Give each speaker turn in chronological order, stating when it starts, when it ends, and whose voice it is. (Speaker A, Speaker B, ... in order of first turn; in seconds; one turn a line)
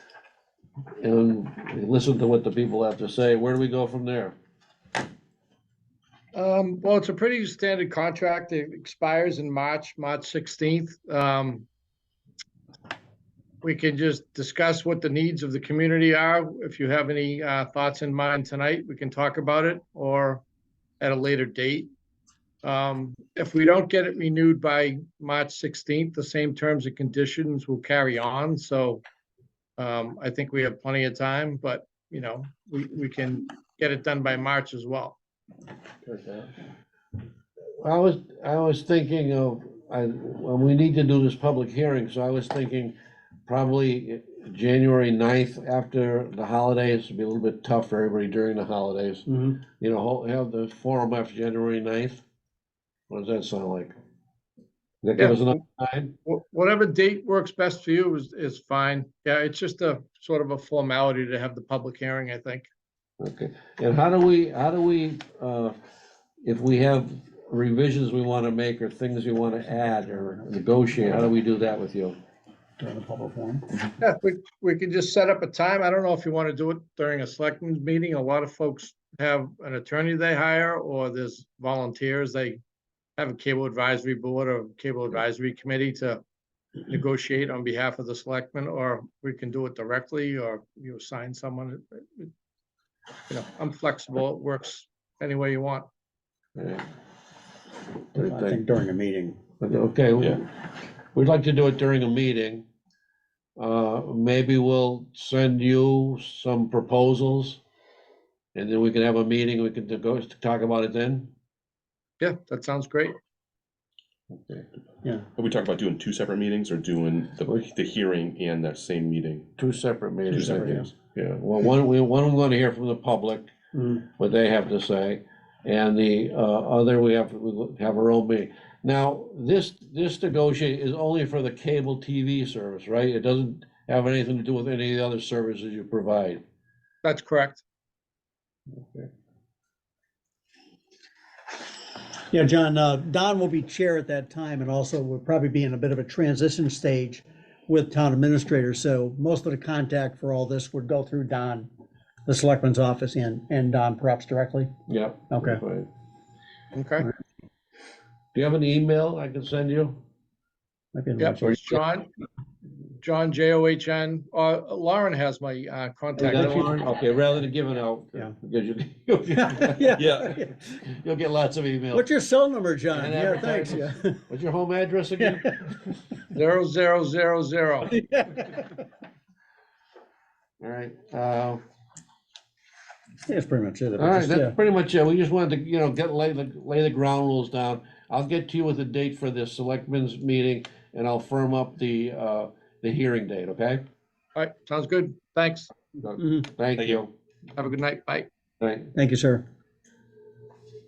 Speaker A: 1.0-4.3
Speaker B: 6.3-11.7
Speaker B: 13.6-20.4
Speaker B: 21.0-21.9
Speaker B: 22.6-29.0
Speaker B: 29.8-35.2
Speaker A: 36.1-36.5
Speaker A: 37.8-42.9
Speaker A: 43.5-52.2
Speaker C: 49.3-49.6
Speaker A: 53.1-53.9
Speaker A: 55.0-56.1
Speaker B: 55.2-55.6
Speaker B: 56.2-62.7
Speaker A: 63.2-65.8
Speaker A: 66.4-72.2
Speaker C: 70.0-70.4
Speaker C: 72.8-73.7
Speaker B: 74.0-82.6
Speaker B: 83.2-86.2
Speaker B: 86.9-92.3
Speaker B: 93.3-95.8
Speaker A: 96.5-96.8
Speaker A: 98.1-98.6
Speaker C: 98.2-99.4
Speaker A: 99.6-100.5
Speaker A: 101.1-102.6
Speaker A: 103.6-107.6
Speaker A: 108.5-111.3
Speaker B: 112.2-113.2
Speaker A: 114.3-114.7
Speaker D: 115.3-119.5
Speaker A: 119.6-123.5
Speaker D: 120.3-120.8
Speaker C: 120.4-120.9
Speaker C: 123.7-124.0
Speaker A: 124.1-136.4
Speaker B: 137.0-137.6
Speaker A: 138.7-139.1
Speaker C: 142.3-151.7
Speaker C: 152.2-154.7
Speaker A: 154.9-155.9
Speaker C: 155.3-155.6
Speaker B: 156.7-157.1
Speaker A: 158.3-160.0
Speaker C: 160.9-161.6
Speaker B: 161.2-162.1
Speaker B: 163.0-166.8
Speaker A: 166.2-172.1
Speaker C: 169.4-170.6
Speaker D: 170.0-170.4
Speaker C: 171.9-174.2
Speaker A: 172.9-175.6
Speaker B: 176.3-177.9
Speaker C: 177.9-178.8
Speaker A: 180.6-181.6
Speaker C: 183.2-184.5
Speaker A: 184.0-193.8
Speaker B: 194.3-195.7
Speaker A: 196.0-197.1
Speaker C: 196.2-196.5
Speaker D: 196.8-197.0
Speaker B: 197.6-198.3
Speaker A: 198.6-198.9
Speaker C: 198.9-199.4